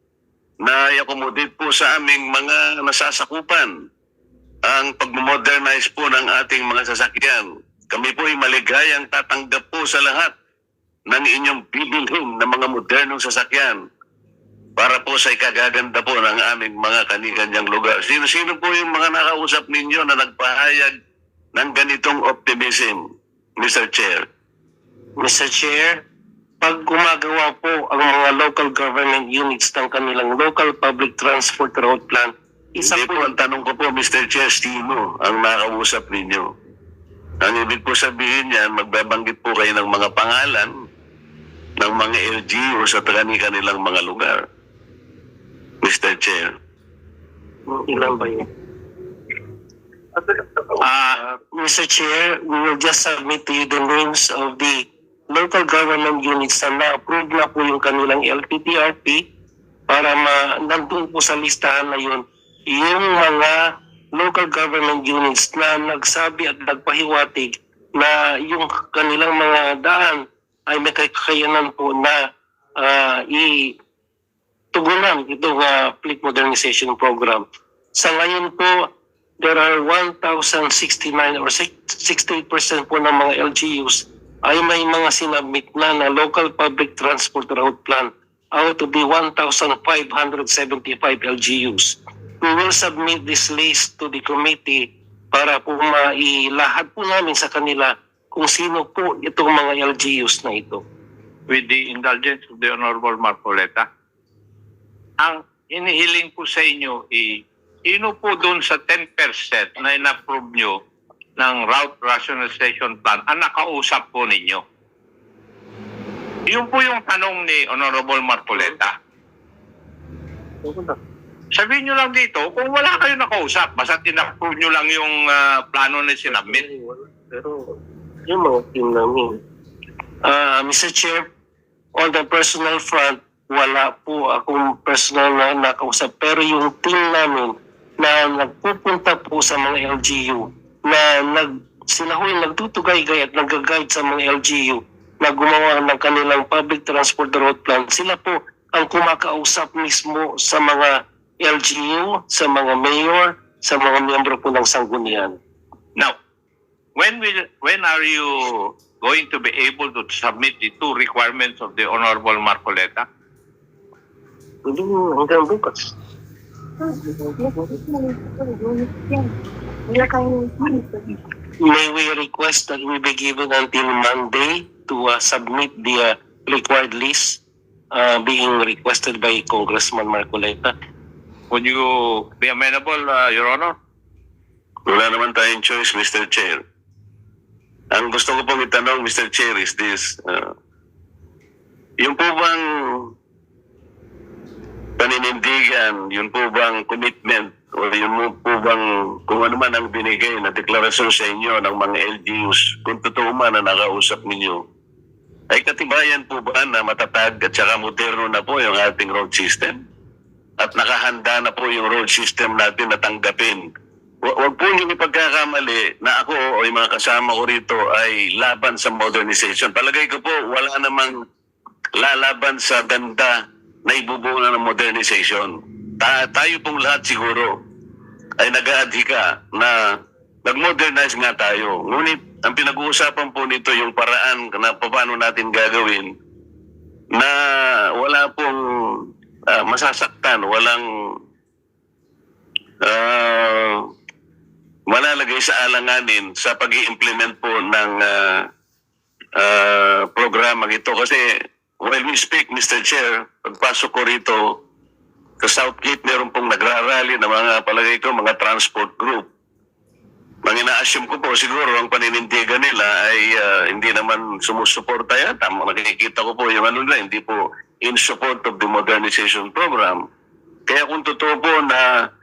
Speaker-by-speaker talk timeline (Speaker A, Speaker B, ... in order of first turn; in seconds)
Speaker A: 0.6-3.7, 4.7-10.3, 11.1-13.8, 14.8-20.9, 21.6-23.0, 23.6-24.2, 32.8-36.5, 37.4-40.7, 41.8-44.4, 45.8-46.5, 184.9-186.6, 187.9-190.5, 192.0-193.1, 195.0-204.6, 205.5-209.8, 210.6-213.6, 214.2-221.2, 222.0-223.3, 223.8-227.5, 228.4-229.8, 230.4-236.1, 238.0-241.2, 242.8-243.8, 244.9-248.5, 249.4-251.3, 251.8-254.4, 255.4-259.3, 260.4-270.0, 270.7-271.8
Speaker B: 25.2-26.0, 26.6-33.3, 47.7-48.5, 50.9-59.2, 59.9-72.2, 72.8-73.8, 74.7-78.9, 79.4-100.8, 120.6-121.0, 126.4-127.8, 128.3-129.4, 130.2-131.3, 131.9-155.4, 164.6-165.9, 166.9-169.2, 169.9-170.8, 171.6-177.4, 177.9-180.7
Speaker C: 101.5-103.9, 105.2-110.8, 111.4-114.6, 116.5-118.9, 121.5-126.6, 157.0-163.1, 181.5-183.7